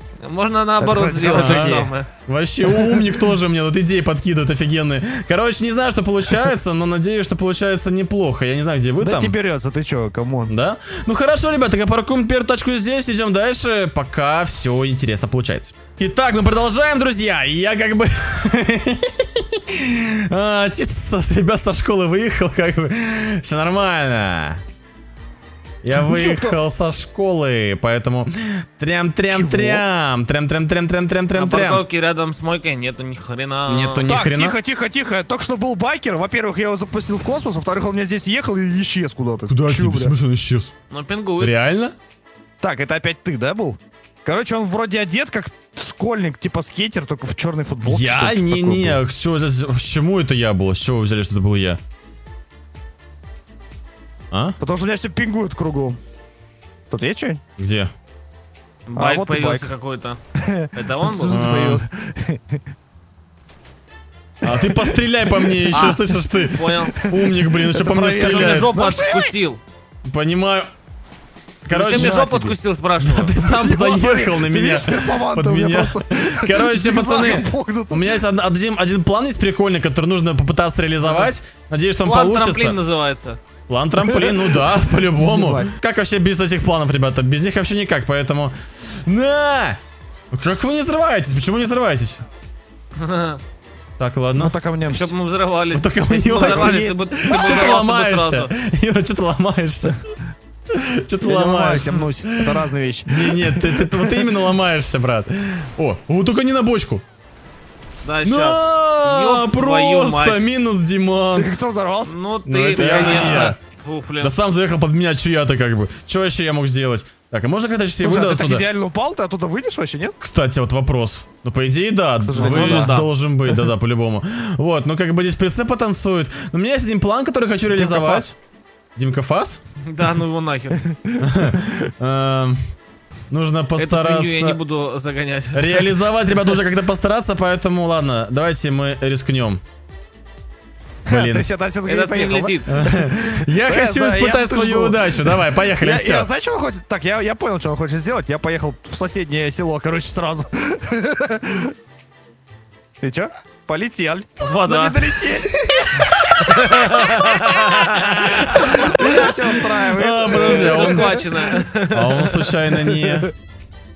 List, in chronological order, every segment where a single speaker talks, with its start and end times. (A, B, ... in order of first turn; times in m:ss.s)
0:00.2-0:02.1 A
0:00.8-0:01.9 B
0:01.3-0:09.3 C
0:02.6-0:03.3 B
0:09.0-0:10.5 B
0:10.5-0:24.6 C
0:25.8-0:31.8 C
0:25.9-0:26.6 B
0:29.3-0:29.8 B
0:31.3-0:34.1 A
0:33.7-0:34.6 C
0:34.1-0:40.1 B
0:39.5-0:40.7 C
0:40.9-0:41.5 A
0:41.4-0:41.9 C
0:42.6-0:49.0 B
0:47.8-0:51.8 C
0:54.3-0:54.6 C
0:54.6-0:56.0 B
0:56.9-0:57.4 B
0:57.6-0:57.9 C
0:58.9-1:00.2 A
0:58.9-0:59.7 B
1:00.3-1:02.6 B
1:00.7-1:01.4 A
1:01.2-1:01.8 C
1:04.4-1:08.7 C
1:04.4-1:09.4 B
1:06.5-1:07.0 A
1:08.1-1:09.6 A
1:10.0-1:10.7 C
1:11.6-1:22.8 C
1:11.6-1:12.5 B
1:11.7-1:13.3 A
1:13.4-1:18.2 B
1:21.0-1:21.3 B
1:22.0-1:23.4 A
1:23.7-1:29.8 C
1:24.0-1:25.7 B
1:30.3-1:32.2 C
1:33.0-1:33.4 A
1:34.0-1:34.5 C
1:34.4-1:35.1 B
1:34.8-1:38.5 A
1:35.7-1:40.0 C
1:36.3-1:37.8 B
1:40.7-1:47.0 C
1:41.2-1:44.4 B
1:48.0-1:50.4 A
1:48.2-1:51.5 C
1:51.3-1:52.2 B
1:52.0-1:54.3 A
1:52.4-1:53.6 C
1:52.7-1:53.5 B
1:54.2-1:58.6 C
1:58.0-2:00.2 B
2:00.2-2:08.4 C
2:02.2-2:03.0 B
2:02.3-2:03.1 A
2:07.7-2:08.3 B
2:09.0-2:09.6 C
2:09.9-2:10.8 A
2:10.8-2:11.6 B
2:11.2-2:12.6 C
2:13.3-2:14.6 C
2:13.8-2:16.6 A
2:15.5-2:19.6 C
2:21.0-2:31.7 B
2:21.1-2:21.5 C
2:21.8-2:22.7 A
2:22.7-2:26.3 C
2:33.0-2:41.7 B
2:34.4-2:35.3 A
2:36.4-2:39.2 A
2:36.7-2:41.2 C
2:40.2-2:42.5 A
2:41.9-2:43.3 C
2:42.7-2:43.3 B